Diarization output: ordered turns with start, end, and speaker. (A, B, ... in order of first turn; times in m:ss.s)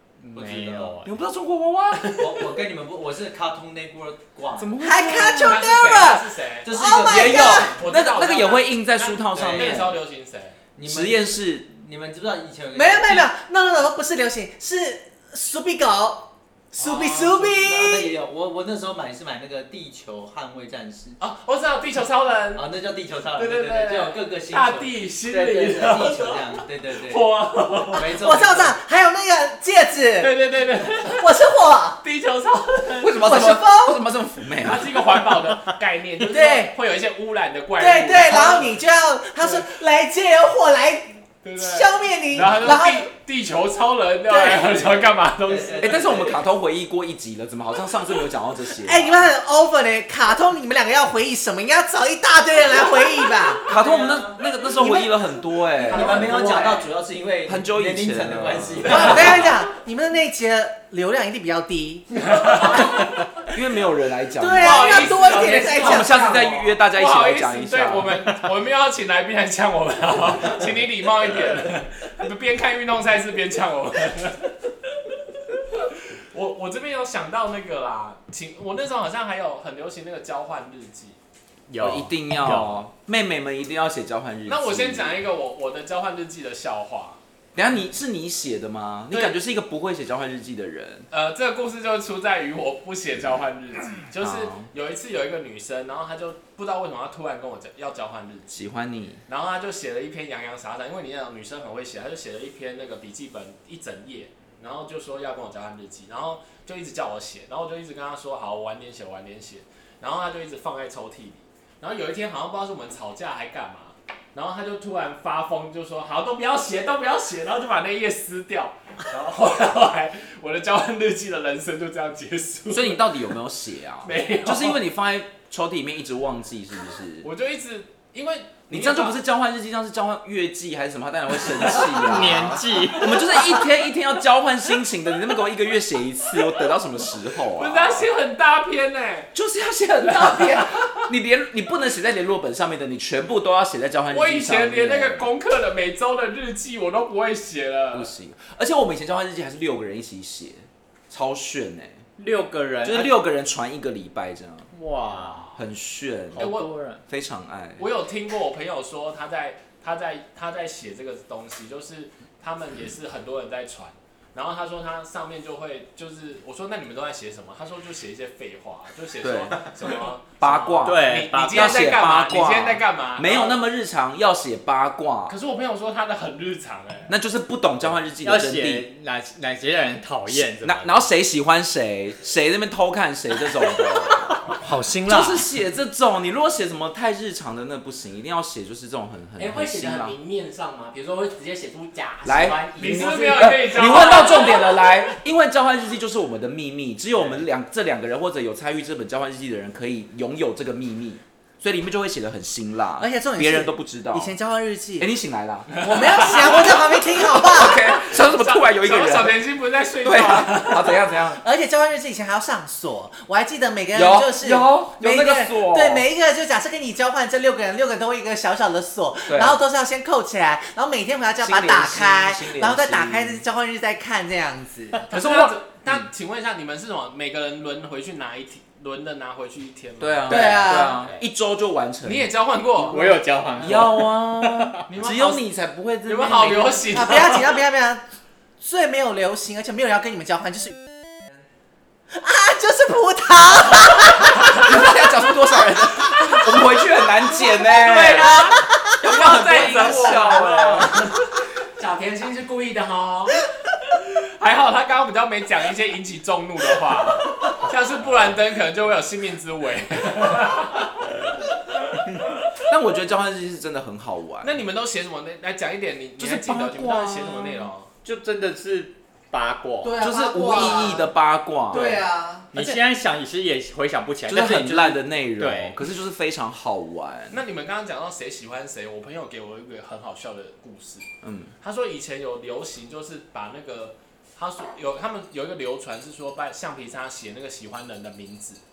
0:00.2-0:01.1 A
0:00.3-0:01.0 B
0:01.0-0:02.2 C
0:02.0-0:02.3 D
0:02.2-0:04.7 B
0:04.6-0:05.6 C
0:04.8-0:07.7 E
0:05.2-0:10.6 D
0:06.6-0:07.8 B
0:07.0-0:10.0 C
0:09.3-0:10.0 B
0:10.8-0:13.3 B
0:10.8-0:11.7 C
0:12.7-0:18.1 E
0:16.8-0:17.3 D
0:17.2-0:21.2 B
0:21.2-0:22.7 D
0:22.5-0:27.4 B
0:23.3-0:28.1 D
0:27.9-0:28.8 B
0:28.0-0:32.0 E
0:30.2-0:31.2 D
0:32.0-0:33.2 D
0:33.0-0:34.9 C
0:33.2-0:34.0 E
0:34.6-0:38.8 D
0:36.3-0:36.7 E
0:37.8-0:43.1 E
0:39.4-0:39.7 D
0:41.4-0:46.0 D
0:44.6-0:46.4 B
0:45.8-0:49.3 C
0:48.7-0:53.6 E
0:53.6-0:59.5 B
0:53.7-0:56.6 C
0:56.0-0:56.8 F
0:57.4-0:59.5 C
0:58.8-1:03.0 E
1:02.2-1:03.0 D
1:03.5-1:08.2 C
1:04.4-1:06.7 E
1:04.6-1:06.1 D
1:06.9-1:14.6 D
1:15.7-1:21.2 D
1:21.7-1:22.9 A
1:21.8-1:25.2 C
1:24.5-1:27.2 D
1:27.5-1:31.1 C
1:31.1-1:38.6 D
1:34.2-1:34.7 C
1:38.5-1:39.2 C
1:39.3-2:03.2 D
2:02.7-2:07.3 C
2:04.0-2:04.8 D
2:07.2-2:09.2 D
2:08.7-2:18.1 C
2:11.7-2:13.6 A
2:17.4-2:19.3 D
2:19.3-2:25.3 C
2:20.0-2:21.1 D
2:24.1-2:28.1 D
2:27.9-2:32.0 C
2:32.2-2:33.1 A
2:32.8-2:34.7 C
2:34.7-2:35.6 A
2:35.5-2:36.5 C
2:36.3-2:37.0 A
2:36.3-2:36.7 D
2:37.1-2:37.9 C
2:37.8-2:53.6 D
2:49.2-2:55.3 C
2:50.8-2:51.8 A
2:55.3-2:57.1 D
2:57.1-2:58.9 C
2:58.2-3:01.0 A
3:00.3-3:10.2 C
3:04.3-3:05.4 A
3:09.4-3:14.8 F
3:12.2-3:24.4 C
3:12.8-3:14.8 D
3:23.0-3:25.1 E
3:25.0-3:29.4 C
3:25.8-3:27.8 E
3:25.8-3:31.1 D
3:30.0-3:31.4 C
3:31.4-3:45.0 E
3:33.9-3:36.0 C
3:39.3-3:39.6 C
3:41.4-3:43.4 C
3:45.1-3:50.8 D
3:45.1-3:46.0 C
3:50.0-3:52.3 C
3:50.3-3:51.1 E
3:52.0-3:53.8 D
3:52.8-3:54.8 A
3:53.6-3:56.9 C
3:54.9-3:55.4 D
3:56.0-3:57.6 D
3:56.9-3:58.0 E
3:58.6-4:00.8 E
4:02.1-4:04.6 E
4:04.4-4:10.9 C
4:07.6-4:08.9 E
4:09.0-4:10.9 D
4:09.1-4:11.1 F
4:11.8-4:13.4 F
4:14.4-4:21.1 D
4:22.6-4:24.6 C
4:24.4-4:27.9 D
4:26.2-4:27.7 C
4:28.0-4:30.0 A
4:29.8-4:31.1 E
4:30.0-4:32.0 C
4:30.6-4:30.8 A
4:31.7-4:32.5 E
4:32.5-4:35.8 A
4:34.3-4:37.4 C
4:37.3-4:41.0 D
4:41.2-4:41.5 C
4:41.6-4:48.6 D